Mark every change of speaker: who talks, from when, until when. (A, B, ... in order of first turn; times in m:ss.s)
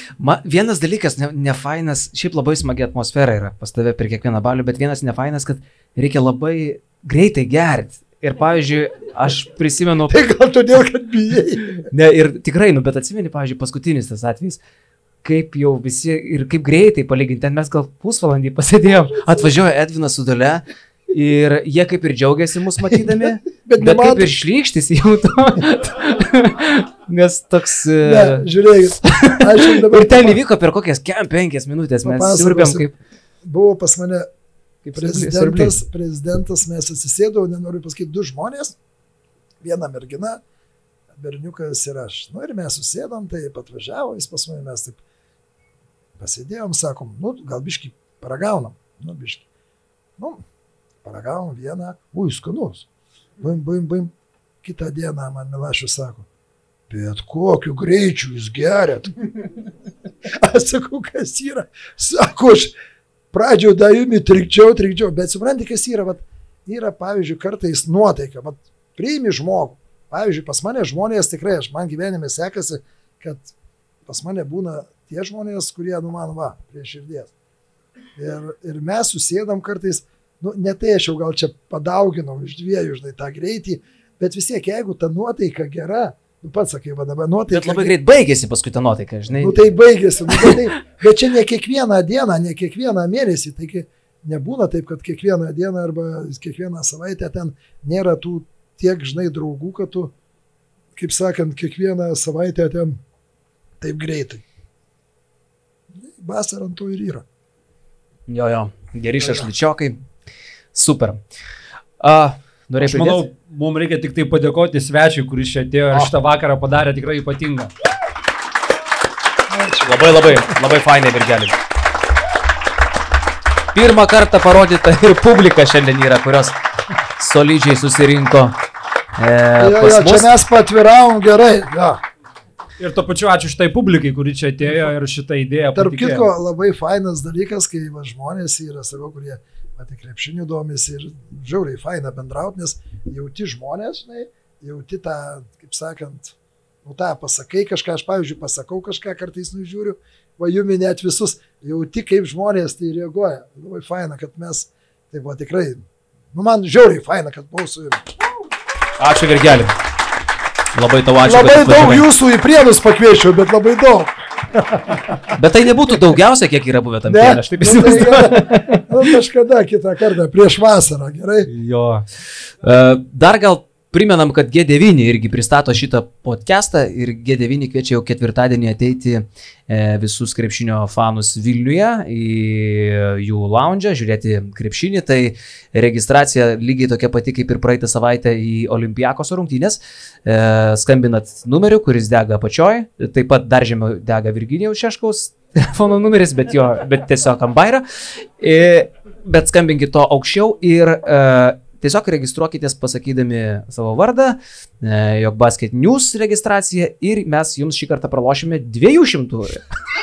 0:00.2-0:10.2 A
0:10.1-0:11.9 B
0:11.9-0:14.6 A
0:15.2-0:33.0 A
0:22.9-0:24.4 B
0:28.0-0:30.4 B
0:32.0-0:32.9 B
0:33.4-0:34.3 B
0:34.8-0:35.8 A
0:34.9-0:38.8 B
0:39.6-0:40.4 B
0:41.1-0:45.0 B
0:46.2-0:49.4 B
0:50.2-0:50.4 B
0:51.0-0:52.8 B
0:53.4-0:56.3 B
0:56.9-0:59.5 B
1:00.2-1:02.7 B
1:03.3-1:13.5 B
1:14.0-1:17.3 B
1:18.2-1:27.9 B
1:27.5-1:29.6 A
1:29.3-1:40.1 B
1:40.9-1:43.0 B
1:43.8-1:44.4 B
1:45.9-1:47.2 B
1:48.3-1:50.0 A
1:49.2-1:49.5 B
1:50.7-1:51.2 A
1:52.0-1:53.2 A
1:52.8-1:57.7 C
1:59.5-2:00.6 B
1:59.8-2:01.6 A
2:03.7-2:06.6 A
2:07.2-2:08.6 A
2:09.2-2:10.3 A
2:09.6-2:12.0 B
2:12.8-2:16.3 C
2:15.7-2:38.1 B
2:39.0-2:39.7 A
2:40.7-2:42.1 A
2:41.2-2:45.3 B
2:45.3-2:48.9 A
2:47.1-2:51.5 B
2:51.5-2:52.0 A
2:52.6-3:29.6 A